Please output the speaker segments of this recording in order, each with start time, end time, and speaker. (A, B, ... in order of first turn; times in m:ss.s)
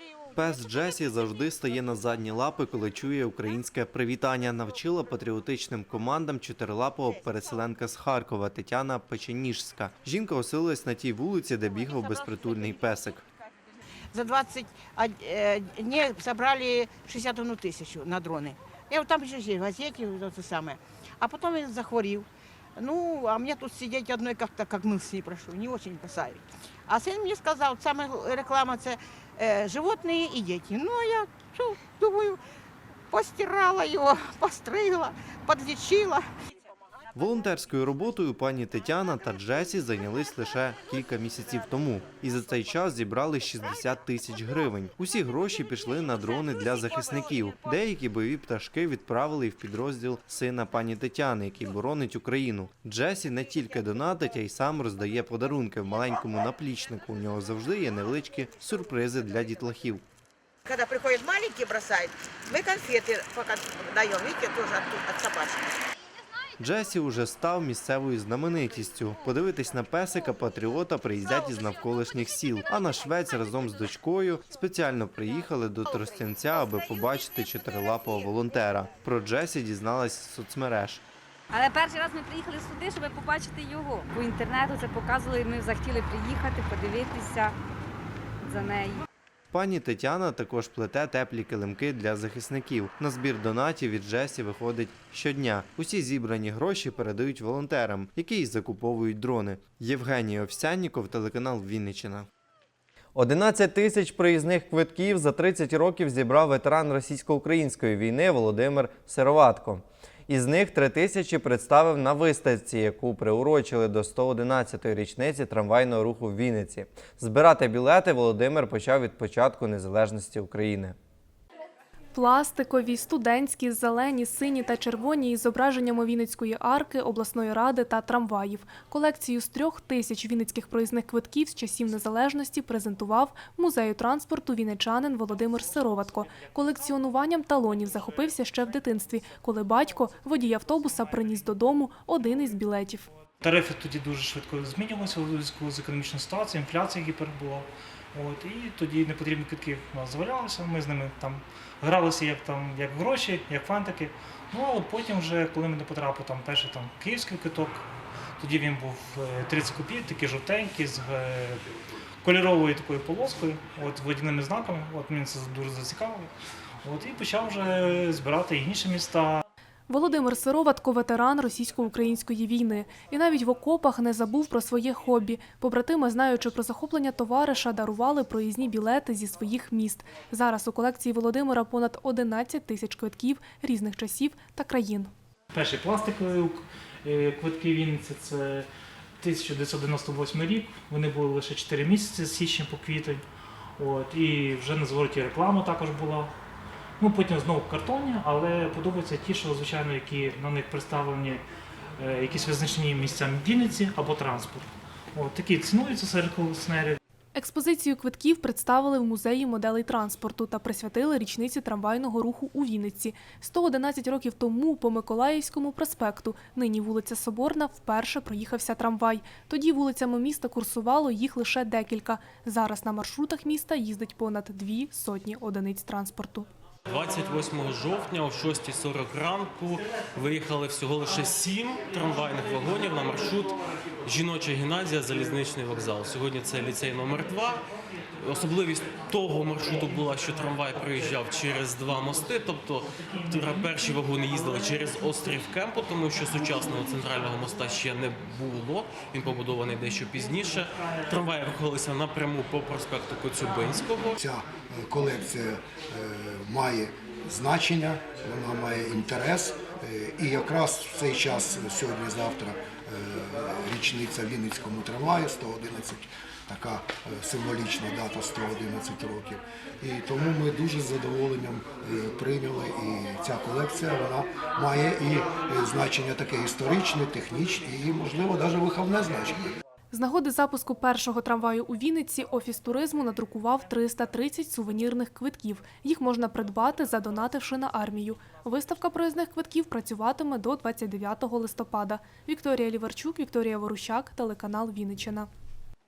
0:00.3-0:13.2 A
0:14.1-0:32.4 B
0:33.1-0:36.2 B
0:37.1-1:00.0 A
1:00.6-1:05.7 B
1:06.6-1:21.0 A
1:21.5-1:27.6 C
1:28.4-1:29.0 C
1:29.5-1:42.3 A
1:43.1-2:01.0 A
2:02.1-2:23.1 D
2:23.4-2:37.9 E
2:38.4-2:41.7 E
2:42.2-2:46.3 E
2:46.8-2:49.4 E
2:49.9-3:05.1 D
3:05.5-3:08.7 E
3:09.2-3:13.2 E
3:13.8-3:16.3 E
3:17.0-3:21.4 E
3:22.0-3:27.0 E
3:27.3-3:46.5 D
3:46.9-4:14.2 F
4:14.2-4:39.5 G
4:39.9-4:55.3 D